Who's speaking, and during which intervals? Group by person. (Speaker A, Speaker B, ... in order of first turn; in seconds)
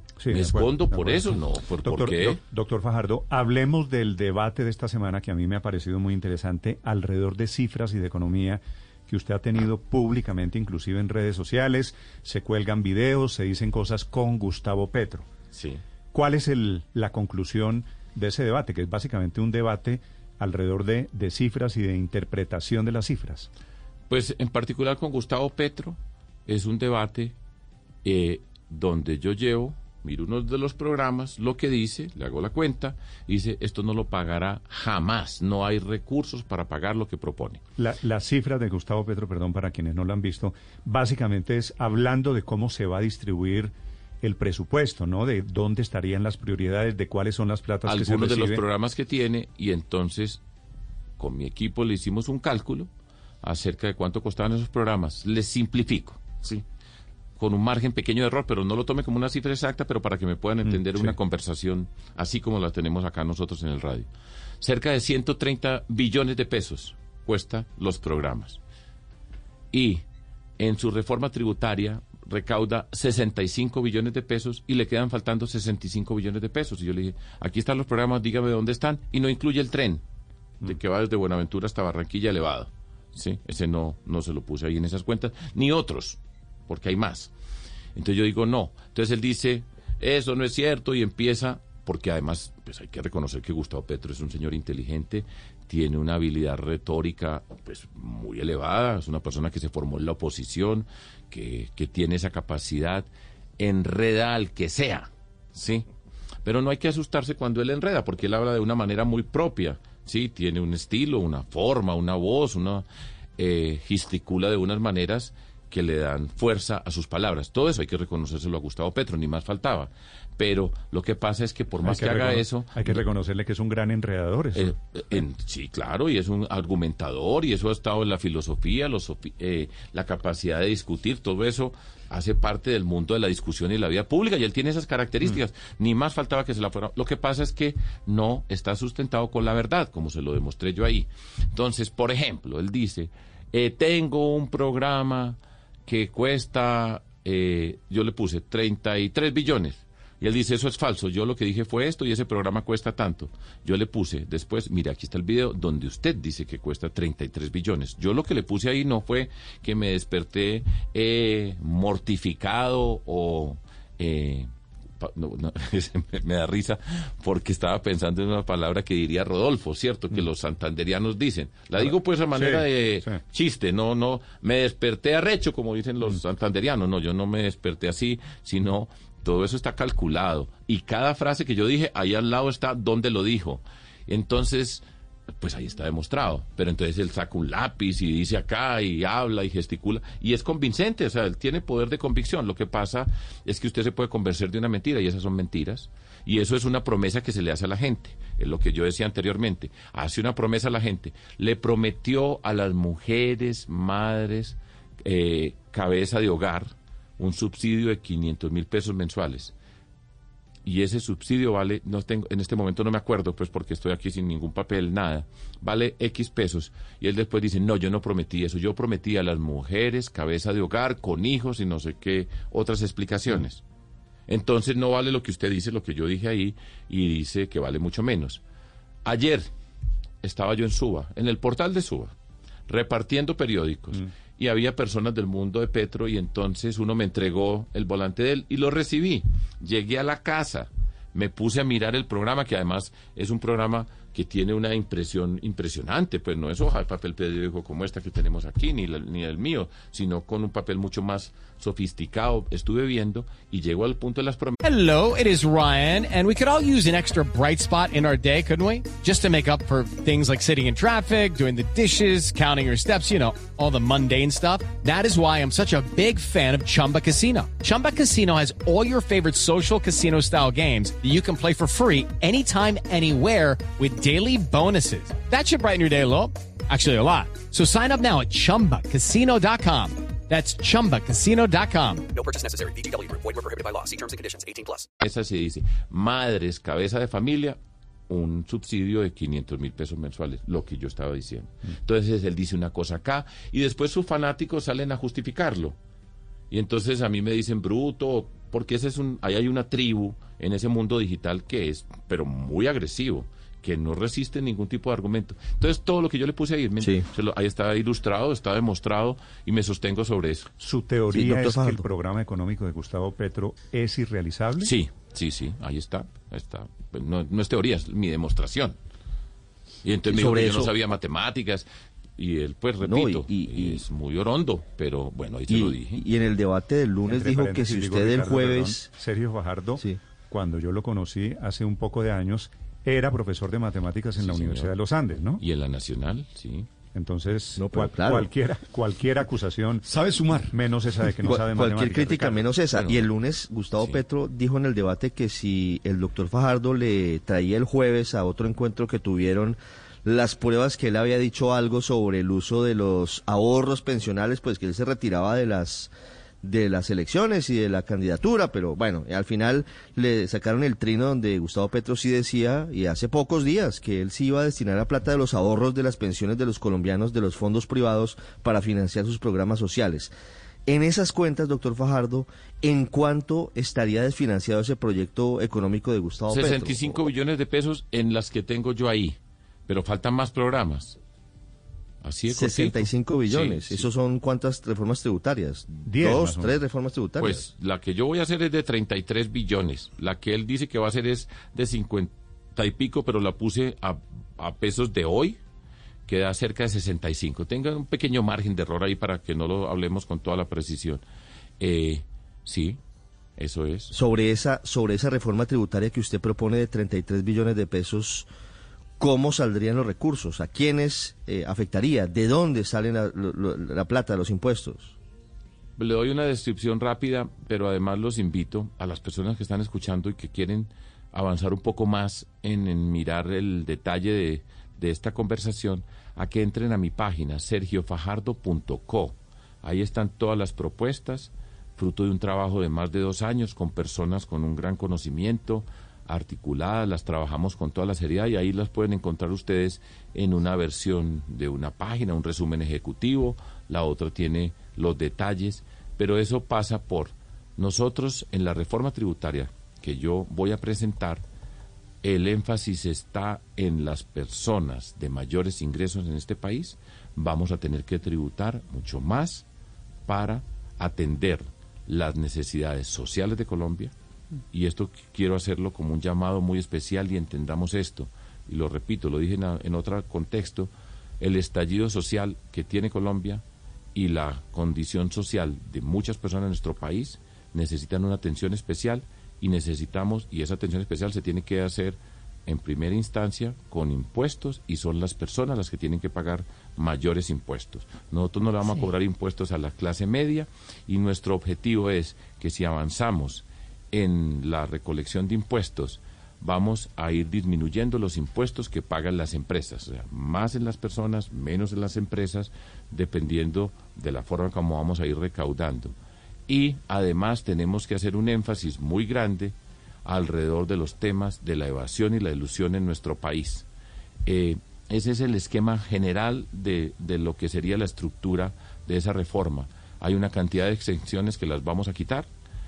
Speaker A: 0.2-15.2, 16.1-23.5, 37.8-48.6, 60.8-61.1, 121.8-124.7, 172.3-173.2, 310.6-314.7, 327.0-335.4, 336.9-342.5, 385.8-386.6
Speaker B: 0.3-2.4, 15.5-15.8, 24.1-27.3, 28.0-37.6, 47.9-50.4, 51.2-52.9, 53.4-56.6, 57.4-64.1, 64.6-68.6, 69.7-70.0, 70.6-80.0, 80.6-87.3, 87.9-105.8, 106.4-112.8, 113.4-123.0, 124.5-164.5, 165.0-184.8, 185.4-209.5, 210.6-223.6, 224.3-228.4, 229.0-229.5, 230.2-232.1, 232.7-254.6, 285.0-287.6, 288.1-295.8, 296.5-310.5, 314.6-318.8, 319.8-326.0, 334.2-334.7, 335.4-336.7, 342.7-343.1, 343.8-344.0, 376.3-381.0, 382.0-383.9, 387.2-395.4, 396.1-401.0, 401.6-402.8, 403.4-403.9, 415.8-451.2, 452.0-459.4, 460.1-463.9, 464.5-473.4, 473.9-505.9, 506.5-513.6, 514.2-522.3
Speaker C: 254.6-282.1
Speaker D: 282.4-284.8
Speaker E: 306.8-307.1, 311.1-311.9, 320.1-320.8, 322.8-323.8, 325.5-328.9, 337.6-338.3, 341.2-355.9, 356.4-370.1, 370.6-377.1, 382.3-387.4, 403.9-408.3, 409.0-414.9